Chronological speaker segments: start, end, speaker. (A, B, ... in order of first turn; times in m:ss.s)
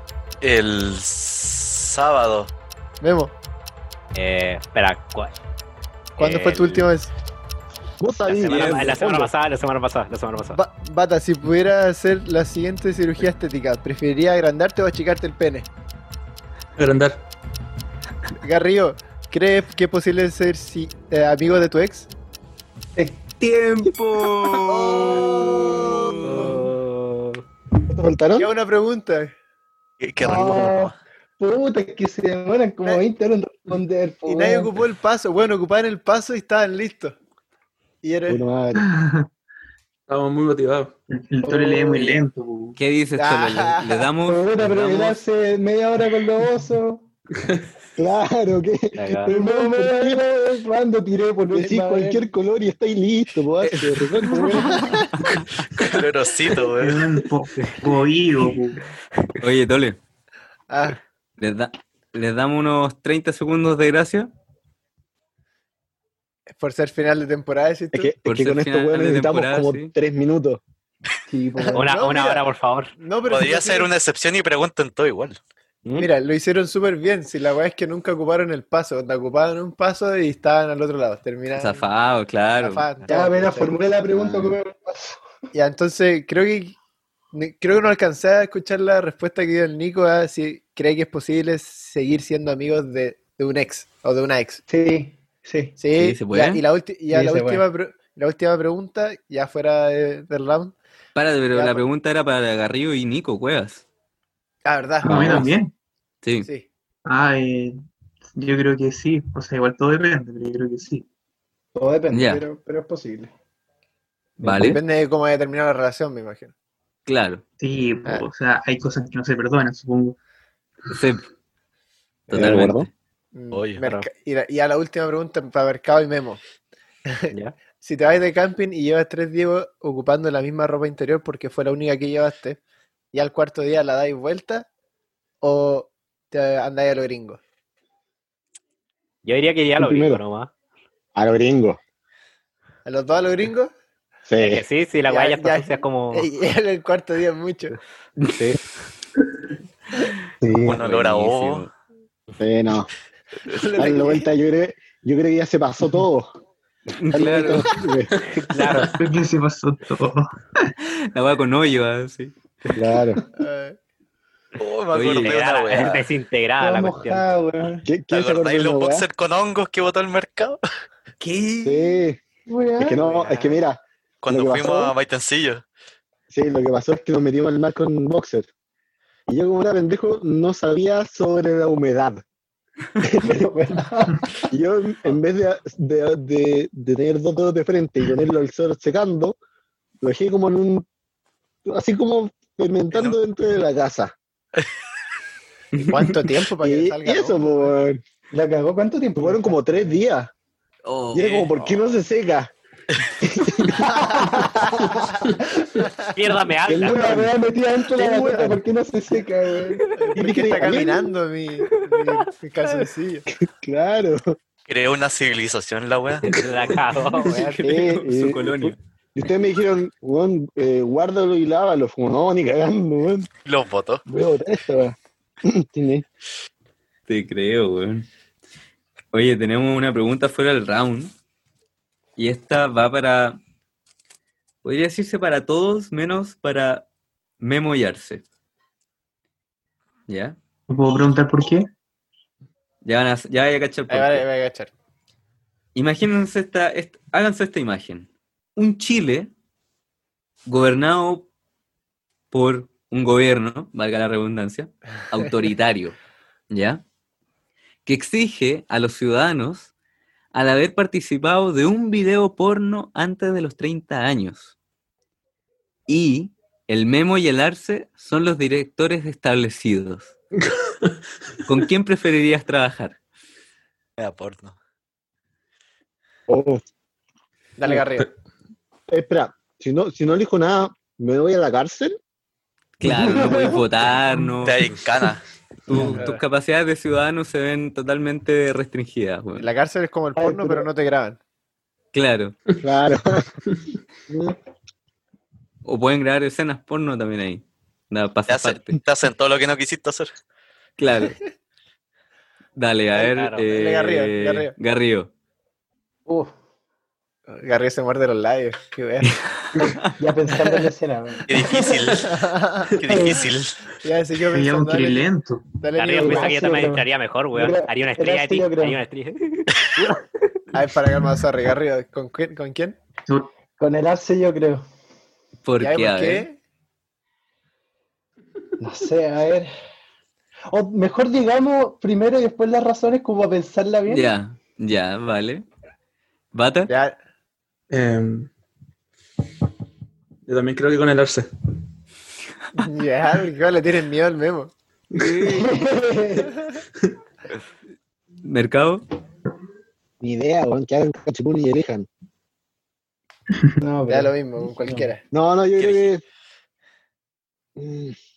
0:00.4-0:02.5 A
0:03.0-0:03.3 B
0:04.1-0:05.3 C
0:06.2-0:06.9 C
0:06.2-0:07.1 B
0:08.0-0:09.3 D
0:08.3-0:10.6 C
0:08.4-0:08.9 E
0:10.5-0:15.7 B
0:16.8-0:17.2 F
0:18.4-0:22.1 B
0:23.0-0:23.2 G
0:23.4-0:26.5 E
0:24.7-0:26.5 B
0:26.2-0:27.4 C
0:27.9-0:28.5 D
0:28.4-0:29.3 B
0:30.0-0:30.9 A
0:30.2-0:34.8 G
0:34.2-0:37.1 B
0:38.0-0:38.4 B
0:38.3-0:38.8 D
0:38.8-0:39.3 H
0:40.1-0:40.9 F
0:41.1-0:42.8 H
0:41.4-0:42.2 G
0:42.8-0:45.2 E
0:43.2-0:44.1 B
0:44.2-0:47.0 G
0:48.0-0:50.2 D
0:49.0-0:49.4 C
0:49.3-0:52.3 G
0:51.5-0:55.0 D
0:53.6-0:55.4 E
0:55.8-0:57.0 A
0:56.7-0:58.8 H
0:59.4-1:00.0 E
1:00.7-1:01.0 B
1:01.4-1:04.3 E
1:06.6-1:08.1 B
1:07.9-1:10.6 D
1:08.2-1:09.9 E
1:11.3-1:11.8 G
1:11.6-1:13.9 B
1:11.7-1:12.9 C
1:13.2-1:15.4 A
1:15.9-1:21.9 B
1:21.5-1:22.9 E
1:22.6-1:23.8 B
1:23.0-1:25.2 G
1:24.2-1:24.5 E
1:25.5-1:26.8 B
1:27.3-1:34.6 B
1:34.7-1:35.8 G
1:35.8-1:40.8 B
1:35.9-1:36.6 E
1:37.1-1:37.6 G
1:41.1-1:43.8 E
1:41.5-1:41.8 B
1:44.6-1:45.5 B
1:45.0-1:45.7 H
1:45.0-1:45.5 E
1:46.2-1:46.5 E
1:47.1-1:47.8 H
1:48.4-1:51.1 H
1:51.7-1:53.3 G
1:52.1-1:52.4 E
1:54.4-1:54.8 E
1:54.5-1:56.5 B
1:57.1-1:57.4 E
1:57.6-2:00.2 H
2:00.9-2:01.2 E
2:02.3-2:02.9 E
2:02.3-2:02.9 D
2:03.3-2:06.4 B
2:03.5-2:03.8 A
2:03.8-2:04.1 C
2:07.1-2:12.6 B
2:13.1-2:14.7 B
2:15.4-2:17.4 B
2:19.2-2:20.5 C
2:19.8-2:20.2 D
2:21.1-2:21.8 D
2:22.9-2:23.7 B
2:24.3-2:24.6 D
2:24.4-2:26.3 C
2:25.1-2:27.8 B
2:30.4-2:30.8 G
2:30.6-2:31.6 A
2:30.7-2:31.7 E
2:32.4-2:32.9 D
2:33.5-2:34.3 B
2:33.8-2:36.3 D
2:37.0-2:37.7 E
2:37.2-2:38.1 D
2:37.2-2:37.4 G
2:38.3-2:38.9 C
2:38.9-2:40.7 H
2:41.1-2:42.4 E
2:42.7-2:43.2 D
2:43.4-2:43.8 B
2:44.6-2:46.1 A
2:44.9-2:45.4 E
2:45.2-2:47.3 C
2:46.6-2:47.9 G
2:47.8-2:49.1 D
2:48.1-2:50.6 A
2:51.2-2:51.7 E
2:51.6-2:52.2 D
2:52.4-2:53.3 G
2:52.8-2:54.9 D
2:53.2-2:53.6 B
2:54.2-2:55.6 A
2:56.3-2:58.5 D
2:59.3-3:02.2 D
3:03.0-3:03.5 D
3:03.2-3:04.2 G
3:04.5-3:09.4 D
3:10.0-3:10.9 D
3:11.6-3:14.1 D
3:15.8-3:17.7 B
3:16.6-3:18.0 D
3:18.3-3:19.8 G
3:19.2-3:20.3 D
3:20.8-3:21.7 E
3:21.1-3:22.5 D
3:23.2-3:24.4 D
3:24.0-3:26.0 B
3:26.1-3:27.2 C
3:26.6-3:27.4 D
3:26.8-3:29.8 G
3:27.9-3:28.6 D
3:30.0-3:33.2 B
3:30.1-3:31.1 D
3:33.4-3:34.4 D
3:34.7-3:36.2 A
3:36.2-3:37.6 C
3:37.2-3:38.8 E
3:37.6-3:43.3 D
3:43.4-3:44.0 A
3:44.1-3:46.0 D
3:47.1-3:48.1 E
3:49.1-3:51.1 E
3:52.2-3:53.4 E
3:54.6-3:56.9 E
3:57.4-3:58.2 E
4:00.1-4:00.4 E
4:00.7-4:01.7 H
4:02.8-4:04.2 E
4:03.9-4:04.7 B
4:05.7-4:09.3 E
4:10.5-4:11.3 E
4:12.3-4:16.0 E
4:16.5-4:16.8 E
4:17.9-4:19.7 E
4:20.3-4:24.5 E
4:25.9-4:30.1 E
4:31.5-4:33.0 E
4:34.0-4:34.6 A
4:36.3-4:36.6 D
4:37.6-4:38.1 B
4:38.9-4:42.0 D
4:42.8-4:44.6 E
4:42.9-4:43.6 G
4:44.4-4:45.2 A
4:45.7-4:49.4 E
4:45.7-4:46.0 G
4:46.0-4:46.2 B
4:49.4-4:51.2 B
4:50.2-4:50.7 G
4:51.9-4:52.4 E
4:52.6-4:53.3 D
4:54.1-4:54.4 D
4:55.6-4:58.8 E
4:58.3-5:00.1 A
5:00.8-5:01.2 E
5:02.6-5:05.1 E
5:03.0-5:03.4 C
5:03.5-5:04.6 B
5:06.1-5:06.3 G
5:07.3-5:09.2 B
5:10.0-5:11.8 G
5:10.3-5:10.6 B
5:11.3-5:12.1 A
5:12.0-5:13.1 B
5:12.8-5:13.6 A
5:12.9-5:13.2 G
5:13.8-5:15.1 B
5:14.3-5:15.5 H
5:15.6-5:16.4 B
5:15.7-5:20.0 C
5:16.0-5:18.8 G
5:20.5-5:22.8 B
5:23.6-5:24.6 G
5:25.4-5:26.3 E
5:25.6-5:26.4 B
5:28.6-5:29.5 G
5:30.5-5:34.1 G
5:33.9-5:35.4 E
5:36.3-5:36.7 E
5:36.7-5:37.0 B
5:37.7-5:38.3 F
5:40.2-5:41.3 F
5:42.6-5:44.5 B
5:44.9-5:45.6 E
5:45.4-5:46.3 G
5:48.2-5:48.8 E
5:50.0-5:51.9 D
5:53.6-5:54.9 G
5:53.9-5:55.0 B
5:55.1-5:56.0 D
5:55.6-5:55.8 E
5:57.6-5:58.0 D